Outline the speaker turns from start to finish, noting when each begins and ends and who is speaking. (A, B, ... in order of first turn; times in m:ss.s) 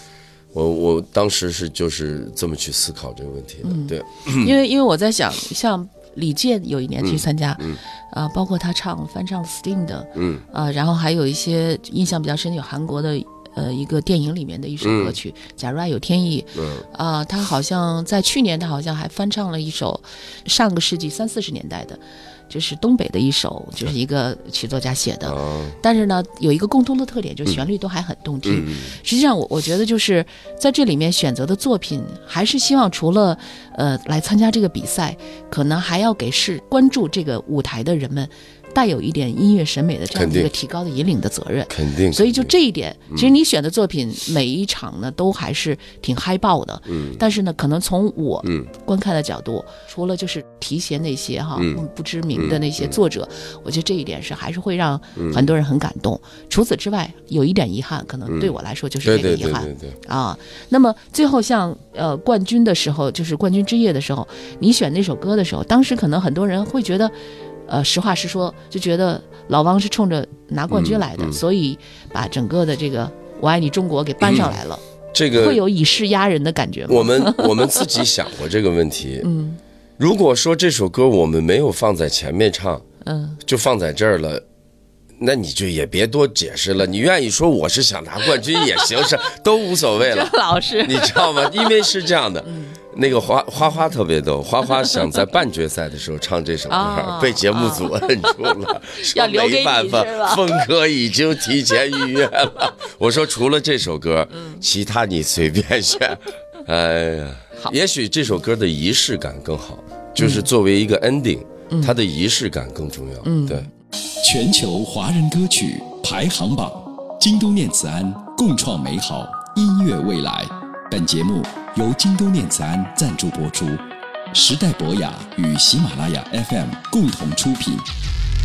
0:00.5-0:04.5 A
0:03.6-1:07.1 B
0:07.0-0:07.8 A
0:10.2-0:10.4 A
0:14.8-0:15.2 A
0:16.6-0:16.8 A
0:25.2-0:25.8 A
0:28.4-0:28.9 A
0:40.1-0:40.5 A
0:41.7-0:42.6 A
0:46.9-0:47.2 A
0:48.4-0:48.7 A
0:52.4-0:53.0 A
0:55.2-0:55.5 A
0:58.3-1:00.0 A
1:07.7-1:17.9 B
1:10.7-1:11.4 A
1:14.2-1:14.6 A
1:15.1-1:15.6 A
1:16.9-1:19.3 A
1:19.2-1:19.6 B
1:20.0-1:22.8 A
1:23.0-1:23.4 B
1:23.4-1:24.4 A
1:25.2-1:53.7 A
1:30.0-1:31.7 B
1:32.4-1:32.8 B
1:36.7-1:40.5 B
1:44.4-1:44.6 B
1:50.2-1:50.5 B
1:51.7-1:52.0 B
1:53.2-1:53.7 B
1:54.2-2:07.8 C